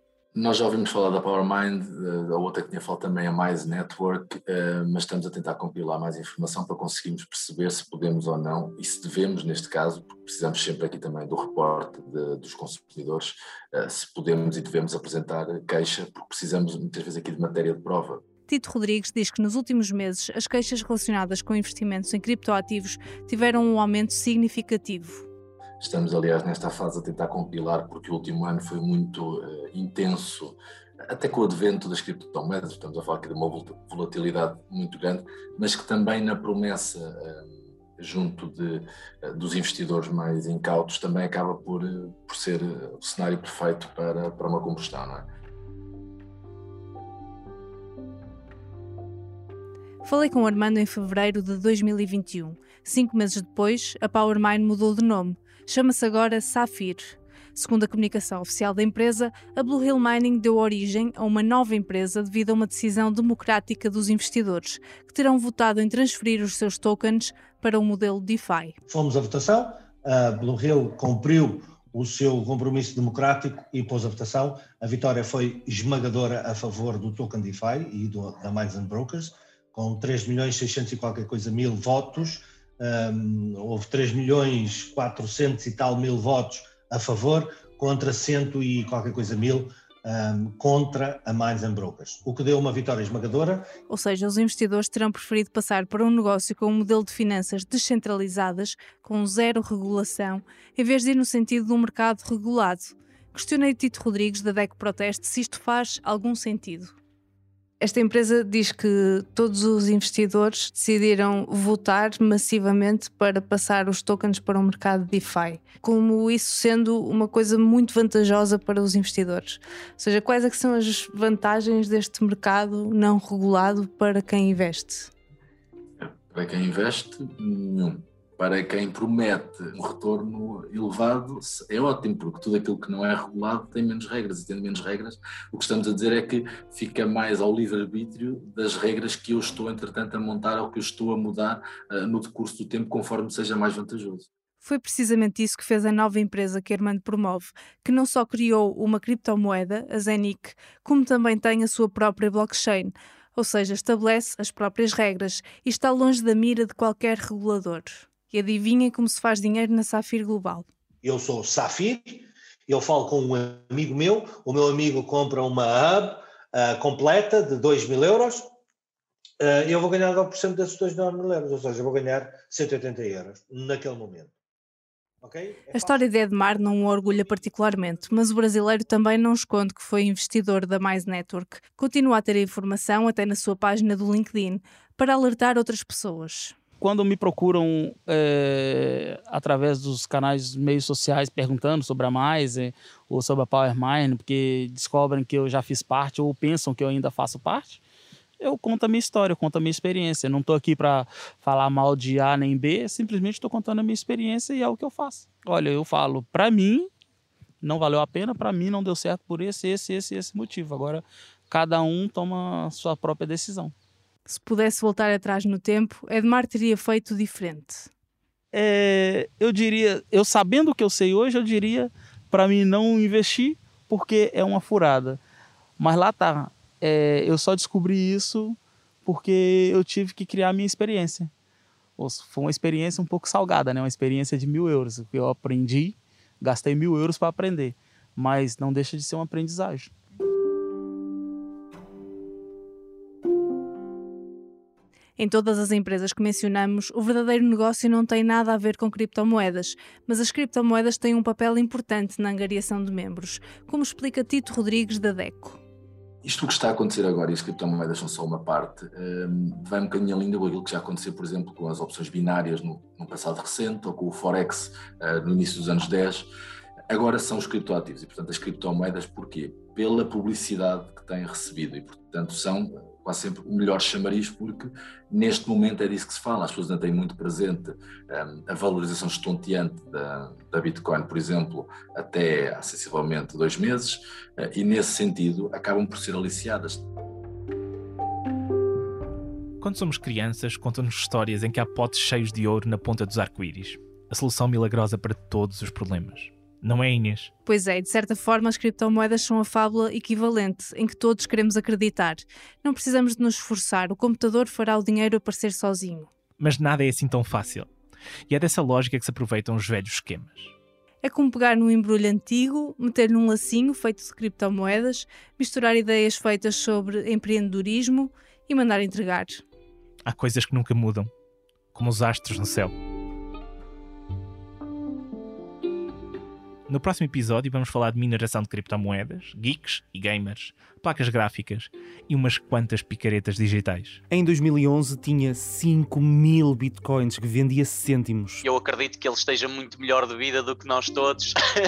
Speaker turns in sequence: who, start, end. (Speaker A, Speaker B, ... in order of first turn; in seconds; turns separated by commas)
Speaker A: 0.3-18.2, Speaker B: 18.5-25.2, Speaker A: 25.8-30.6, Speaker A: 31.1-45.2, Speaker B: 50.0-68.8, Speaker C: 68.9-93.7, Speaker B: 93.9-106.9, Speaker B: 107.8-125.1, Speaker A: 126.0-144.3, Speaker B: 144.6-160.7, Speaker C: 161.0-168.5, Speaker C: 169.4-174.3, Speaker C: 175.2-176.1, Speaker B: 175.7-186.5, Speaker D: 186.8-197.8, Speaker D: 198.4-206.9, Speaker D: 207.6-213.7, Speaker B: 214.3-217.9, Speaker D: 218.5-225.2, Speaker D: 225.8-231.3, Speaker D: 232.0-239.9, Speaker B: 245.2-255.6, Speaker A: 256.2-266.3, Speaker A: 266.9-286.8, Speaker E: 289.6-297.3, Speaker B: 297.4-306.1, Speaker E: 306.4-307.7, Speaker E: 308.3-310.5, Speaker B: 311.0-319.4, Speaker E: 320.1-321.1, Speaker E: 321.7-322.7, Speaker E: 326.7-334.0, Speaker F: 334.1-338.4, Speaker G: 338.4-341.4